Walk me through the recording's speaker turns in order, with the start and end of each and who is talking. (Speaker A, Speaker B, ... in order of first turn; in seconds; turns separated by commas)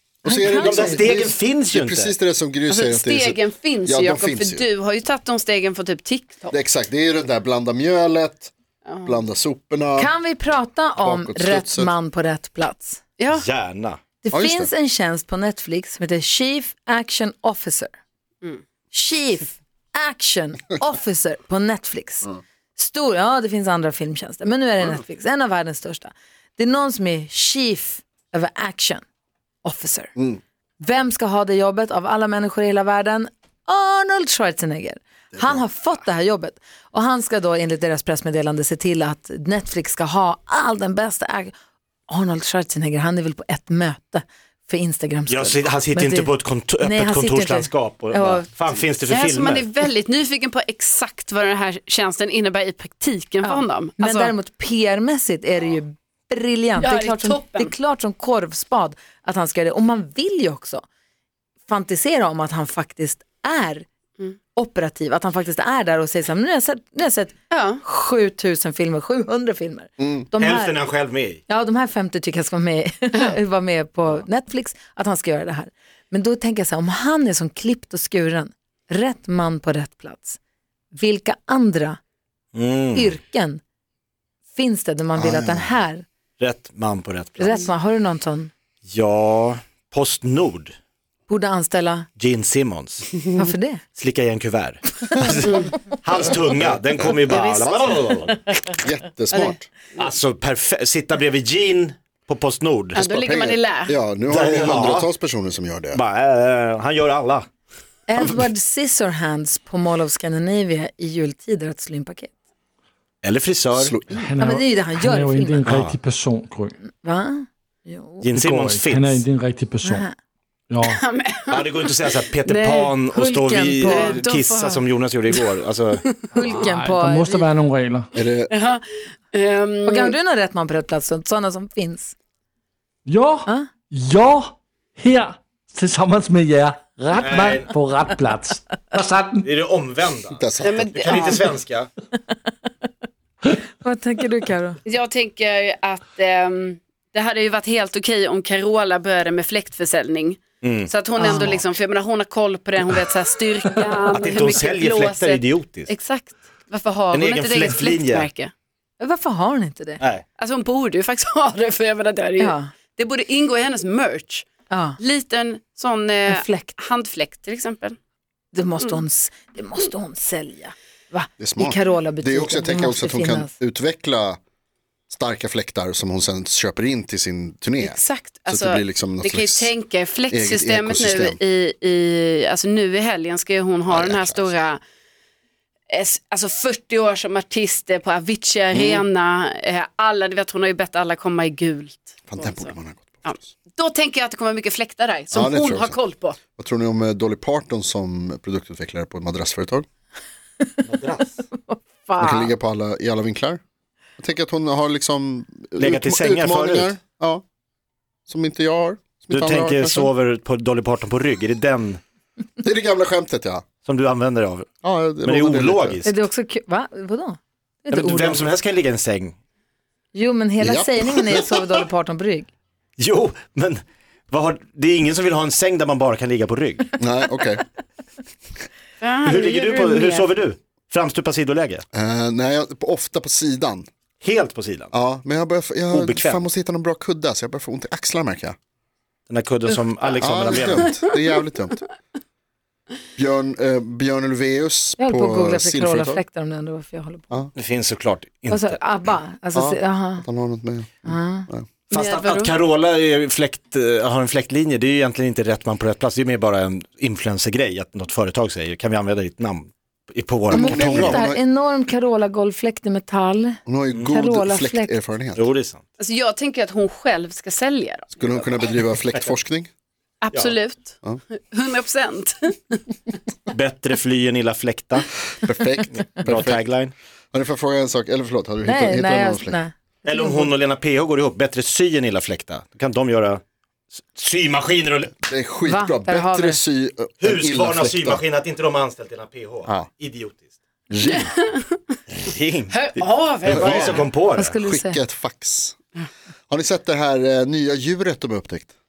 Speaker A: 0.2-4.7, Speaker B: 0.2-1.1, Speaker C: 0.5-2.2, Speaker D: 2.7-6.6, Speaker A: 6.5-8.5, Speaker D: 8.9-9.2, Speaker A: 9.0-10.1, Speaker B: 10.0-13.0, Speaker A: 11.0-11.9, Speaker D: 13.2-13.4, Speaker C: 13.3-14.0, Speaker B: 14.2-17.9, Speaker A: 14.3-14.7, Speaker B: 18.9-29.0, Speaker B: 29.6-30.1, Speaker A: 30.2-30.4, Speaker B: 30.8-41.5, Speaker A: 35.3-35.7, Speaker B: 42.1-48.8, Speaker C: 45.3-49.7, Speaker D: 49.1-54.3, Speaker B: 53.4-60.8, Speaker D: 56.8-57.7, Speaker B: 61.7-63.9, Speaker B: 64.5-70.8, Speaker D: 67.5-67.8, Speaker A: 70.0-70.3, Speaker C: 70.4-71.4, Speaker B: 71.5-80.4, Speaker B: 80.9-82.0, Speaker C: 82.5-83.2, Speaker B: 83.0-83.6, Speaker B: 84.5-86.0, Speaker A: 85.2-85.8, Speaker C: 86.4-87.7, Speaker B: 87.4-88.5, Speaker C: 88.9-90.7, Speaker B: 91.3-92.1, Speaker C: 92.2-93.2, Speaker B: 93.4-93.8, Speaker C: 94.0-98.6, Speaker A: 97.2-98.0, Speaker D: 97.2-98.1, Speaker A: 98.7-99.7, Speaker C: 100.0-103.0, Speaker D: 103.0-104.0, Speaker A: 103.0-106.0, Speaker C: 104.3-105.1, Speaker C: 105.9-107.5, Speaker B: 108.1-112.3, Speaker C: 113.2-114.0, Speaker A: 113.8-114.3, Speaker E: 114.1-116.8, Speaker B: 114.4-115.7, Speaker C: 115.6-116.0, Speaker B: 116.9-118.3, Speaker C: 118.2-119.2, Speaker E: 118.3-120.1, Speaker B: 119.8-120.1, Speaker E: 120.7-121.0, Speaker D: 120.8-123.0, Speaker C: 121.5-126.0, Speaker B: 123.1-124.3, Speaker D: 123.8-125.4, Speaker B: 126.3-127.5, Speaker E: 126.3-128.1, Speaker A: 128.1-128.5, Speaker D: 128.5-130.2, Speaker B: 129.9-132.1, Speaker E: 133.1-139.5, Speaker C: 137.2-137.8, Speaker C: 139.4-141.9, Speaker A: 140.3-141.2, Speaker D: 140.6-141.4, Speaker B: 143.8-144.8, Speaker D: 144.8-158.5, Speaker C: 150.6-151.6, Speaker B: 151.2-151.6, Speaker C: 154.1-156.0, Speaker C: 157.1-158.3, Speaker B: 159.0-160.0, Speaker C: 160.0-160.2, Speaker D: 160.4-164.4, Speaker B: 162.4-162.7, Speaker B: 164.7-165.0, Speaker D: 165.0-168.0, Speaker B: 166.3-166.8, Speaker B: 168.5-173.5, Speaker A: 171.4-174.4, Speaker A: 175.1-179.7, Speaker D: 177.8-184.8, Speaker A: 180.3-181.4, Speaker A: 183.9-184.6, Speaker D: 185.9-192.7, Speaker A: 188.7-189.1, Speaker A: 192.3-193.5, Speaker D: 193.2-196.4, Speaker A: 195.3-196.0, Speaker A: 196.6-199.9, Speaker C: 200.9-201.4, Speaker B: 201.5-202.5, Speaker A: 202.2-203.6, Speaker A: 204.2-207.4, Speaker C: 205.8-207.0, Speaker A: 208.3-210.1, Speaker C: 209.3-212.0, Speaker A: 212.6-213.7, Speaker C: 213.8-214.7, Speaker A: 214.8-216.0, Speaker C: 215.2-216.3, Speaker B: 216.1-218.5, Speaker C: 217.9-219.3, Speaker B: 220.1-222.5, Speaker A: 220.6-221.6, Speaker C: 223.0-226.9, Speaker A: 227.0-227.7, Speaker D: 229.0-230.1, Speaker C: 229.2-231.8, Speaker B: 230.0-230.2, Speaker A: 231.9-233.9, Speaker C: 234.2-234.9, Speaker A: 234.9-238.6, Speaker C: 235.9-236.4, Speaker C: 239.3-241.0, Speaker A: 240.2-241.8, Speaker A: 243.2-246.2, Speaker B: 245.0-247.3, Speaker C: 247.6-248.8, Speaker B: 248.5-250.3, Speaker A: 249.6-251.7, Speaker B: 251.0-251.5, Speaker D: 251.9-252.6, Speaker C: 251.9-261.3, Speaker A: 260.5-261.4, Speaker B: 260.5-264.9, Speaker A: 263.6-265.5, Speaker C: 265.4-265.8, Speaker D: 266.0-268.4, Speaker A: 268.2-269.7, Speaker D: 270.2-272.8, Speaker C: 273.5-275.1, Speaker A: 275.4-276.6, Speaker C: 276.2-276.9, Speaker A: 277.3-279.6, Speaker B: 278.6-280.4, Speaker C: 280.0-283.4, Speaker C: 284.1-285.2, Speaker A: 285.2-288.2, Speaker B: 285.6-286.6, Speaker C: 287.2-290.5, Speaker A: 289.6-289.9, Speaker A: 290.9-291.3, Speaker D: 291.1-291.8, Speaker C: 292.1-294.5, Speaker D: 292.7-294.1, Speaker A: 293.5-295.8, Speaker B: 294.2-295.0, Speaker A: 296.5-298.7